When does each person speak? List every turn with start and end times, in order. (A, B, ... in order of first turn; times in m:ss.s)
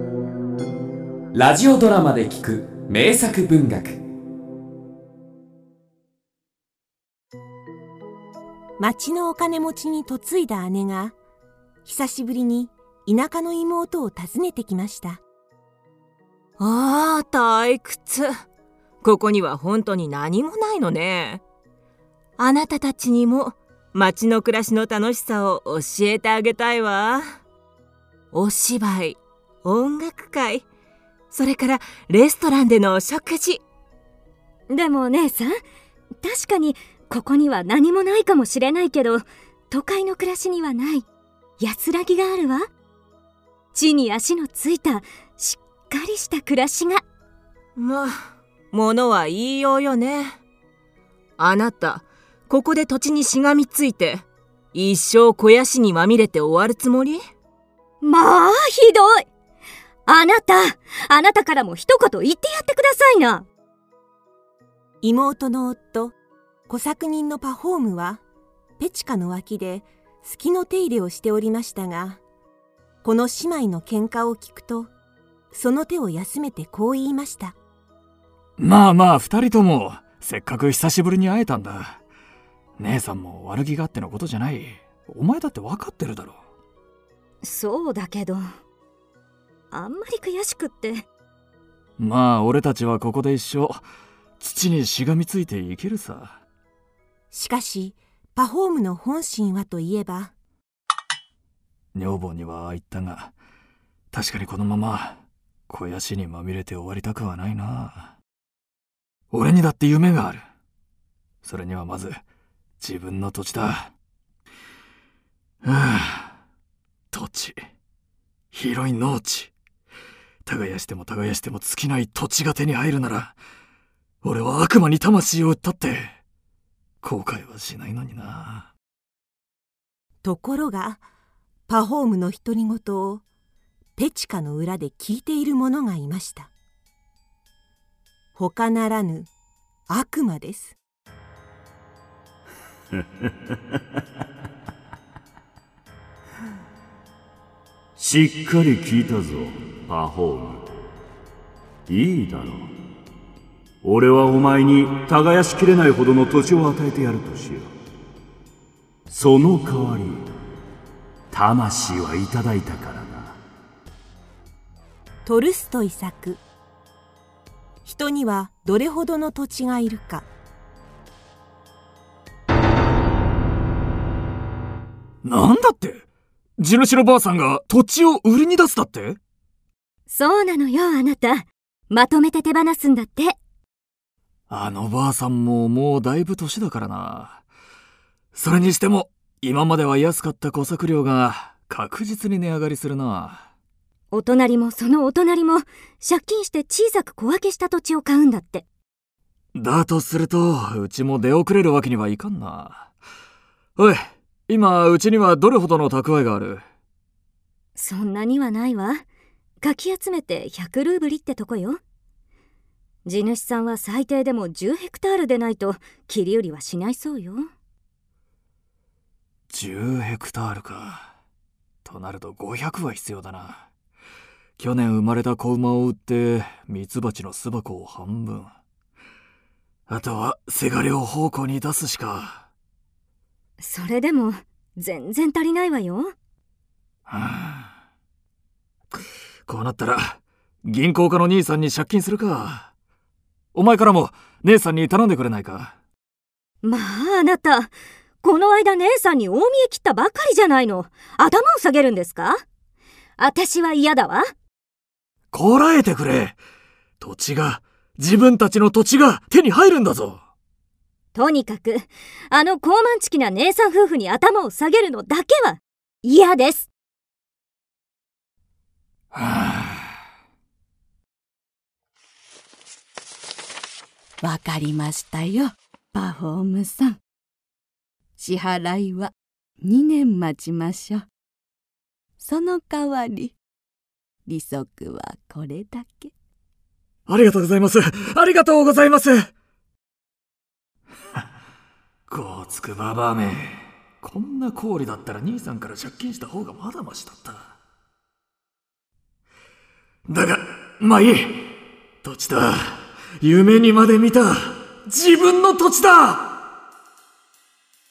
0:01.3-0:04.0 A
0:08.8-0:11.2 B
0:11.8-0:15.2 B
0:16.6-0:18.4 C
0:19.0-0:21.4 C
0:22.4-0:27.3 C
0:28.3-0:30.6 C
0:31.3-0:33.6 C
0:34.7-0:35.5 D
0:36.2-0:41.1 D
0:41.6-0:42.7 D
0:43.7-0:47.0 D
0:47.8-0:50.4 C
0:51.4-0:57.2 C
0:58.0-0:59.3 D
1:00.1-1:03.4 D
1:05.0-1:06.1 B
1:06.7-1:08.2 B
1:08.8-1:12.2 B
1:13.0-1:14.9 B
1:15.5-1:17.6 B
1:18.6-1:22.0 E
1:22.8-1:26.4 E
1:27.4-1:28.4 D
1:29.7-1:31.0 D
1:32.0-1:33.8 E
1:34.4-1:36.4 E
1:37.3-1:40.3 B
1:41.9-1:43.3 E
1:44.1-1:48.1 E
1:49.3-1:50.4 E
1:51.4-1:52.2 E
1:52.8-1:53.9 E
1:55.6-1:56.4 E
1:57.1-1:57.6 E
1:58.5-1:59.5 E
2:00.4-2:03.4 E
2:04.2-2:06.2 E
2:07.0-2:08.7 E
2:10.2-2:11.0 B
2:11.7-2:13.2 B
2:14.0-2:16.5 B
2:18.3-2:19.3 B
2:19.9-2:20.8 B
2:28.0-2:30.8 F
2:31.9-2:32.7 F
2:33.8-2:37.7 F
2:39.1-2:40.4 F
2:41.3-2:43.4 F
2:45.2-2:46.4 B
2:47.8-2:50.3 B
2:55.2-2:56.0 E
2:56.6-2:59.2 E
3:00.1-3:03.4 D
3:04.5-3:07.4 E
3:08.3-3:13.4 E
3:14.1-3:18.6 D
3:19.5-3:22.9 E
3:23.8-3:26.6 E
3:27.8-3:29.0 D
3:29.6-3:31.8 D
3:33.0-3:37.4 D
3:39.5-3:41.1 E
3:41.8-3:43.7 E
3:44.6-3:48.5 E
3:49.9-3:52.5 E
3:53.6-3:56.1 D
3:57.1-3:57.7 E
3:59.4-4:02.7 E
4:03.5-4:05.8 E
4:06.6-4:07.7 D
4:08.2-4:12.4 D
4:13.2-4:14.3 D
4:15.3-4:16.4 E
4:17.0-4:20.2 E
4:21.1-4:26.7 D
4:29.1-4:29.9 E
4:34.2-4:37.0 G
4:38.2-4:41.0 G
4:42.2-4:43.3 G
4:44.3-4:46.1 G
4:47.1-4:49.3 E
4:52.1-4:57.5 E
5:00.1-5:01.5 E
5:02.0-5:06.4 E